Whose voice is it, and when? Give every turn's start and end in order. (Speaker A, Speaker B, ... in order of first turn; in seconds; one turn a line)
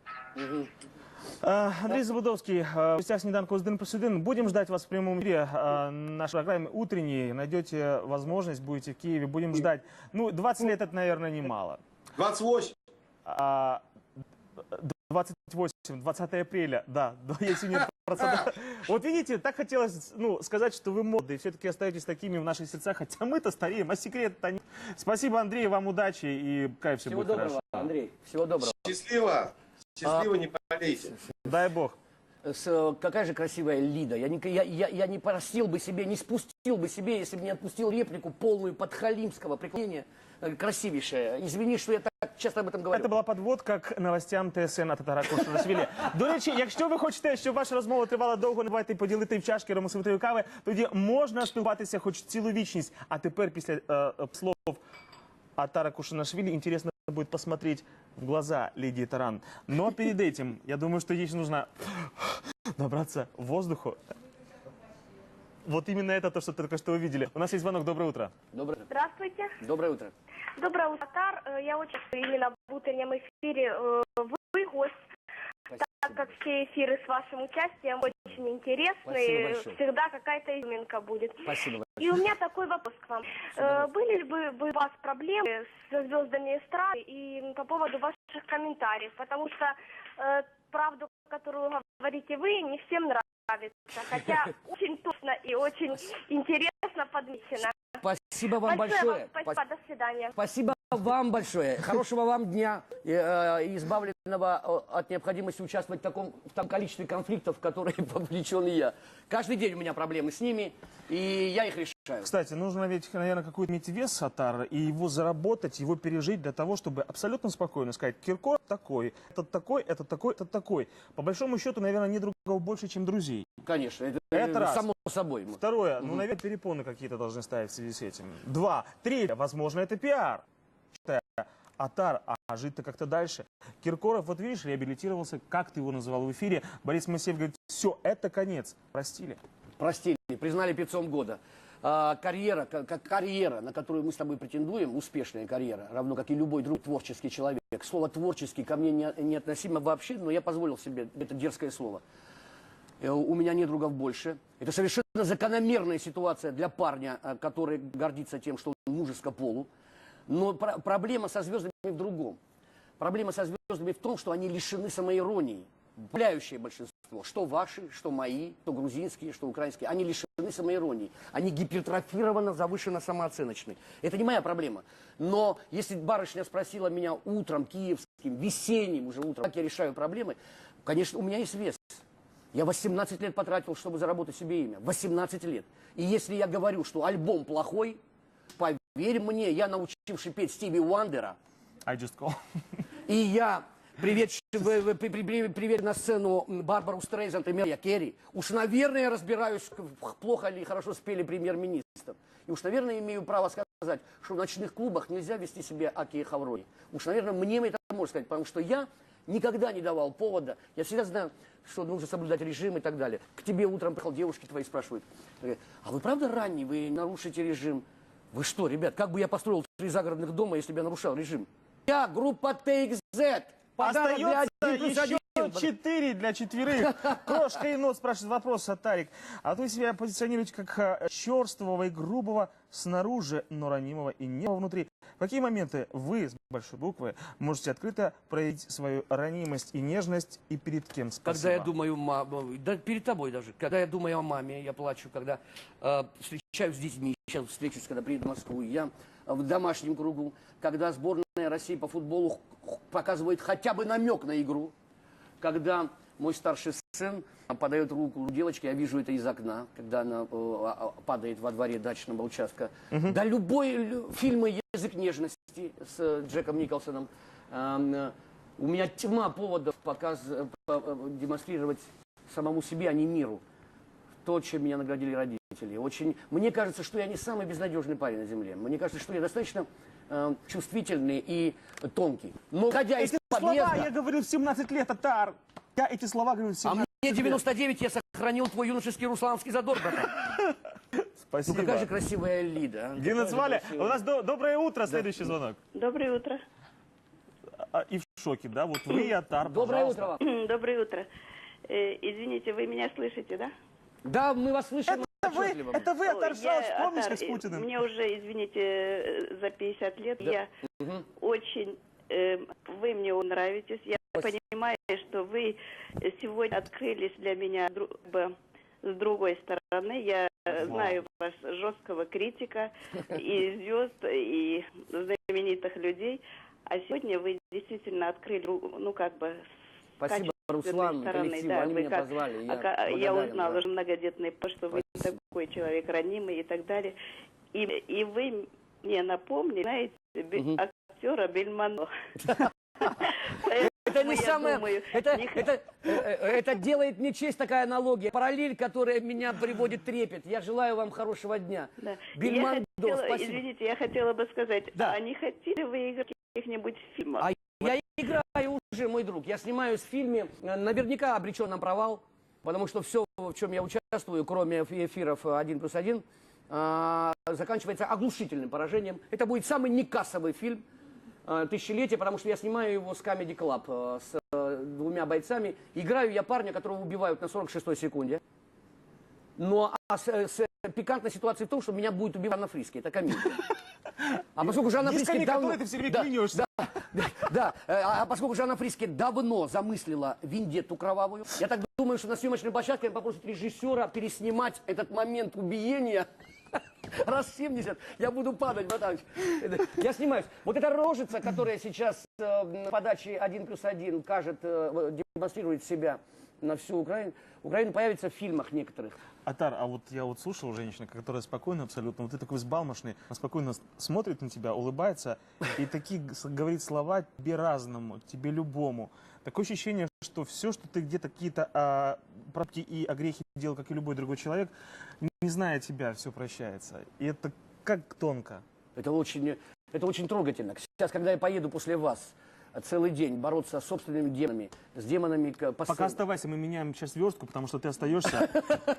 Speaker A: 0.3-0.7
Speaker B: 1.4-11.8
Speaker C: 12.2-12.7
Speaker B: 13.2-13.8
Speaker B: 14.7-27.9
Speaker A: 27.0-28.8
Speaker C: 28.6-31.1
Speaker B: 31.4-31.9
Speaker A: 32.4-43.1
Speaker B: 42.9-54.8
Speaker B: 55.6-64.0
Speaker B: 65.6-68.3
Speaker A: 68.5-68.9
Speaker D: 68.9-69.6
Speaker A: 69.6-70.1
Speaker D: 70.6-74.9
Speaker A: 75.7-76.3
Speaker D: 75.8-98.0
Speaker A: 79.0-79.8
Speaker A: 81.4-82.2
Speaker A: 83.5-83.9
Speaker A: 98.0-99.6
Speaker D: 98.6-100.3
Speaker A: 100.3-112.3
Speaker B: 112.2-123.5
Speaker A: 123.6-126.2
Speaker B: 124.3-124.8
Speaker B: 125.5-130.4
Speaker B: 131.0-139.4
Speaker A: 139.8-152.0
Speaker A: 153.0-159.7
Speaker A: 160.3-162.4
Speaker A: 163.0-188.0
Speaker A: 188.6-191.3
Speaker B: 191.8-192.4
Speaker A: 193.1-225.7
Speaker B: 223.8-241.7
Speaker A: 241.2-254.7
Speaker A: 255.4-273.4
Speaker A: 274.2-283.9
Speaker B: 283.0-287.4
Speaker A: 286.6-290.3
Speaker B: 291.2-291.9
Speaker A: 291.5-294.0
Speaker B: 293.0-295.6
Speaker A: 294.9-295.3
Speaker E: 295.7-296.4
Speaker B: 297.6-300.1
Speaker A: 299.4-300.2
Speaker E: 300.2-301.1
Speaker E: 301.7-303.5
Speaker A: 304.0-305.9
Speaker B: 304.9-307.7
Speaker E: 306.0-310.5
Speaker A: 310.2-311.0
Speaker E: 311.2-318.3
Speaker E: 318.8-329.4
Speaker A: 330.0-333.6
Speaker E: 330.0-336.9
Speaker A: 334.7-335.1
Speaker E: 337.5-341.9
Speaker A: 342.2-353.4
Speaker E: 343.0-345.5
Speaker E: 351.8-357.3
Speaker A: 357.2-370.6
Speaker A: 371.2-378.2
Speaker A: 379.4-383.4
Speaker A: 384.4-409.0
Speaker B: 384.4-386.5
Speaker B: 409.2-428.4
Speaker A: 428.8-436.0
Speaker B: 435.7-438.4